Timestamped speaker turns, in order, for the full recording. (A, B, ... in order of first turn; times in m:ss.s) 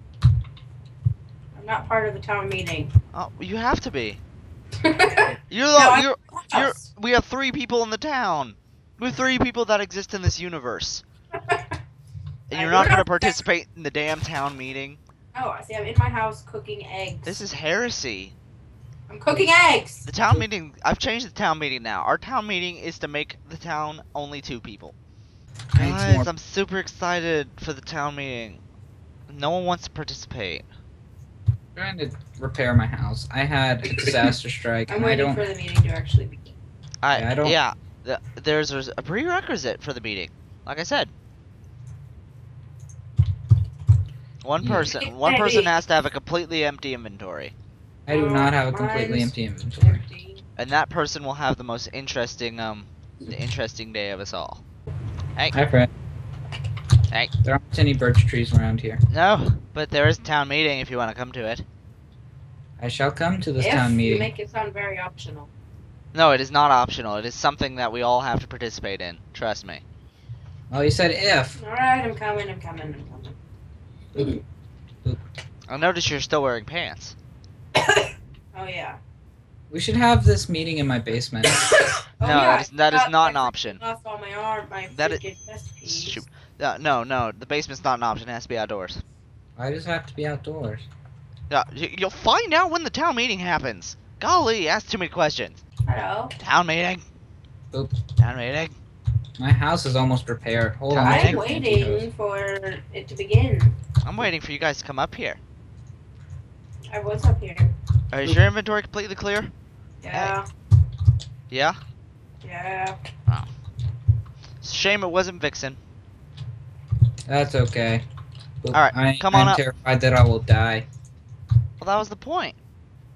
0:01.5-0:02.9 A
0:03.1-0:04.2 B
0:04.8-0:06.8 A
0:05.5-0:11.0 B
0:11.3-0:11.8 A
0:12.5-0:15.0 B
0:12.5-0:13.4 A
0:15.3-0:17.4 A
0:17.2-0:18.3 B
0:19.1-0:20.1 A
0:20.0-0:24.9 B
0:25.7-0:26.3 C
0:25.8-0:28.6 B
0:29.3-0:30.6 B
0:31.8-0:35.4 C
0:34.9-0:36.5 A
0:37.0-0:41.1 B
0:37.1-0:37.6 C
0:44.4-0:47.5 B
0:44.6-0:44.9 C
0:45.0-0:45.7 A
0:48.0-0:50.0 C
0:48.1-0:50.4 A
0:50.6-0:54.6 B
0:55.5-0:55.9 C
0:57.4-0:59.0 C
0:59.1-1:01.6 B
1:02.8-1:04.3 C
1:03.6-1:05.5 A
1:06.1-1:09.8 B
1:10.7-1:11.6 C
1:11.6-1:13.4 A
1:15.7-1:17.1 B
1:17.8-1:19.0 A
1:19.7-1:21.6 C
1:22.2-1:26.2 A
1:22.2-1:23.8 B
1:24.9-1:25.2 B
1:25.8-1:29.0 B
1:29.6-1:30.9 C
1:31.5-1:35.6 B
1:35.9-1:36.3 A
1:36.4-1:37.0 B
1:37.7-1:38.0 C
1:38.2-1:38.8 B
1:39.4-1:42.1 C
1:40.9-1:43.8 A
1:41.0-1:41.4 B
1:44.0-1:45.4 B
1:46.9-1:47.7 A
1:48.1-1:49.5 B
1:50.0-1:50.4 A
1:51.5-1:51.8 B
1:52.4-1:53.0 A
1:54.6-1:55.8 B
1:57.3-1:58.0 C
1:58.6-2:00.9 C
1:58.7-1:59.6 B
2:01.8-2:02.6 B